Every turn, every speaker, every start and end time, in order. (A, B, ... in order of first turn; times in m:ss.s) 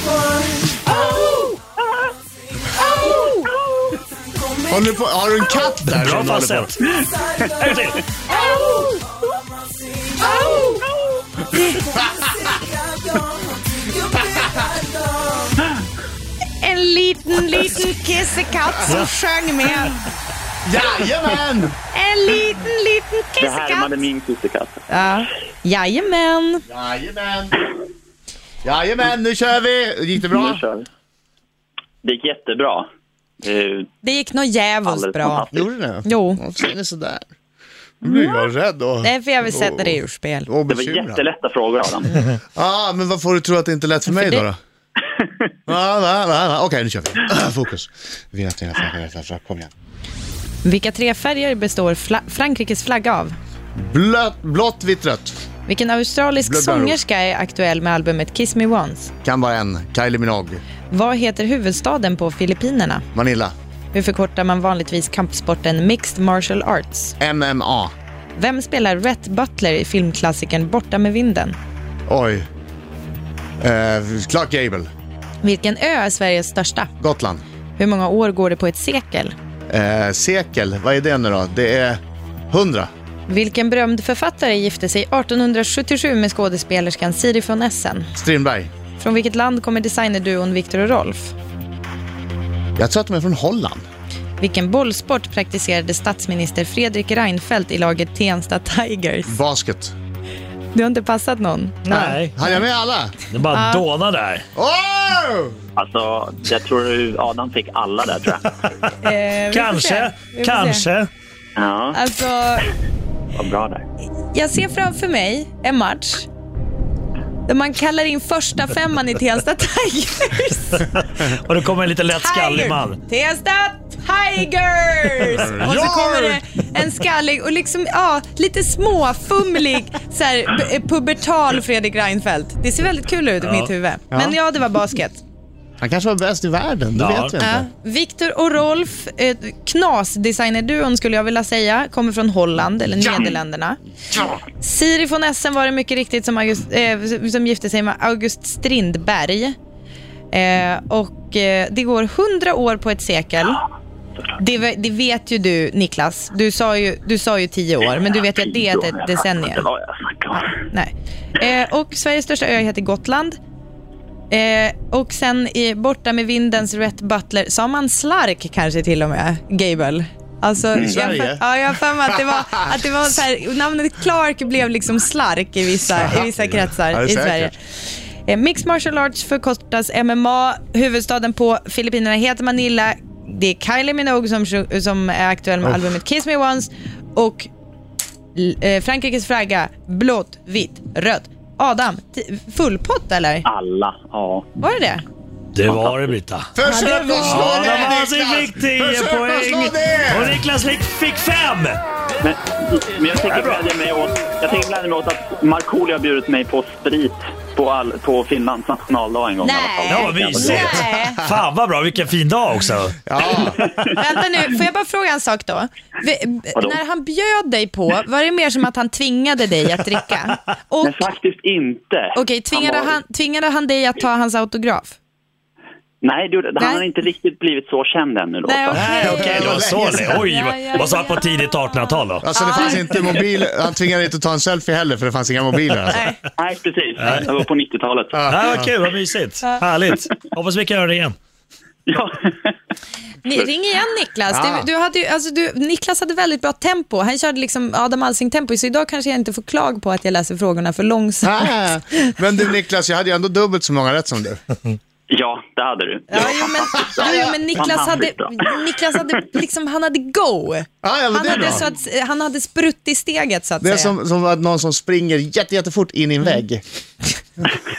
0:02.8-0:03.5 A
0:02.8-0:04.0 B
0:04.7-0:06.7 C
0:05.9-0:06.8 D
0:07.4-0:08.8 B
0:07.5-0:08.0 D
0:08.3-0:08.9 A
0:10.2-0:10.8 A
0:10.2-0:11.4 B
0:11.5-0:11.8 A
0:12.0-0:12.3 C
0:16.6-0:20.0 A
0:20.6-0:21.7 C
0:21.9-0:23.9 A
0:23.4-0:24.8 B
0:24.9-0:26.6 A
0:26.7-0:27.6 C
0:28.6-0:30.6 C
0:30.3-0:30.9 B
0:32.0-0:32.8 B
0:33.4-0:33.9 B
0:34.0-0:35.4 A
0:34.8-0:35.7 B
0:35.5-0:37.3 C
0:36.0-0:36.4 A
0:38.0-0:41.2 C
0:38.0-0:38.5 A
0:39.0-0:40.5 A
0:40.7-0:42.3 B
0:42.5-0:44.6 C
0:44.1-0:44.4 A
0:45.7-0:49.7 C
0:50.6-0:53.4 A
0:53.8-0:55.3 C
0:55.7-0:59.1 A
0:56.4-0:57.0 C
0:59.2-1:00.6 C
1:00.9-1:03.0 A
1:03.1-1:03.5 C
1:03.9-1:07.2 A
1:07.2-1:07.9 C
1:08.4-1:11.6 A
1:12.1-1:12.4 C
1:13.6-1:14.9 C
1:15.4-1:16.9 A
1:17.0-1:17.4 C
1:17.8-1:19.3 A
1:19.7-1:22.0 C
1:22.5-1:22.9 C
1:23.3-1:28.1 A
1:28.1-1:28.7 C
1:29.0-1:31.3 A
1:32.8-1:33.8 C
1:34.4-1:39.4 A
1:39.3-1:39.9 C
1:40.7-1:41.9 A
1:41.8-1:42.3 D
1:41.9-1:43.1 C
1:43.3-1:44.4 D
1:43.5-1:43.8 A
1:44.6-1:45.6 C
1:45.8-1:48.4 B
1:48.6-1:48.9 D
1:49.0-1:50.9 A
1:49.5-1:51.1 D
1:51.6-1:52.0 B
1:51.9-1:52.7 A
1:53.3-1:53.8 B
1:54.3-1:56.3 A
1:57.4-2:00.9 A
2:00.9-2:03.0 D
2:02.1-2:15.2 A
2:05.6-2:06.4 D
2:13.4-2:13.7 D
2:14.1-2:14.4 C
2:15.8-2:17.7 C
2:17.0-2:17.4 D
2:17.4-2:23.8 A
2:23.0-2:23.3 C
2:24.6-2:29.5 A
2:30.3-2:33.6 A
2:34.4-2:39.6 A
2:37.8-2:40.5 B
2:40.3-2:43.3 A
2:44.3-2:57.6 A
2:50.7-2:51.4 C
2:56.0-2:57.5 C
2:58.2-3:07.5 A
3:08.3-3:13.4 A
3:13.4-3:14.6 B
3:14.6-3:15.0 A
3:15.5-3:16.5 D
3:15.6-3:16.1 B
3:16.5-3:20.4 C
3:16.6-3:17.6 A
3:17.2-3:21.8 D
3:22.2-3:30.9 B
3:23.2-3:23.6 D
3:29.4-3:31.2 A
3:29.8-3:33.0 D
3:33.0-3:33.7 C
3:33.9-3:41.0 A
3:40.8-3:43.0 B
3:42.1-3:45.0 A
3:46.0-3:49.0 B
3:46.6-3:46.8 A
3:48.4-3:51.6 A
3:48.7-3:52.3 D
3:49.0-3:50.1 C
3:52.2-3:56.0 C
3:52.3-3:53.2 A
3:55.9-3:56.2 A
3:56.4-3:58.4 B
3:57.0-3:57.3 D
3:58.1-3:58.7 C
3:58.3-4:01.1 D
4:01.9-4:02.5 B
4:03.2-4:12.1 A
4:04.3-4:04.7 C
4:11.2-4:14.4 C
4:15.1-4:18.5 B
4:16.1-4:23.9 A
4:17.0-4:17.3 C
4:20.8-4:21.6 C
4:21.3-4:21.6 B
4:23.6-4:26.6 C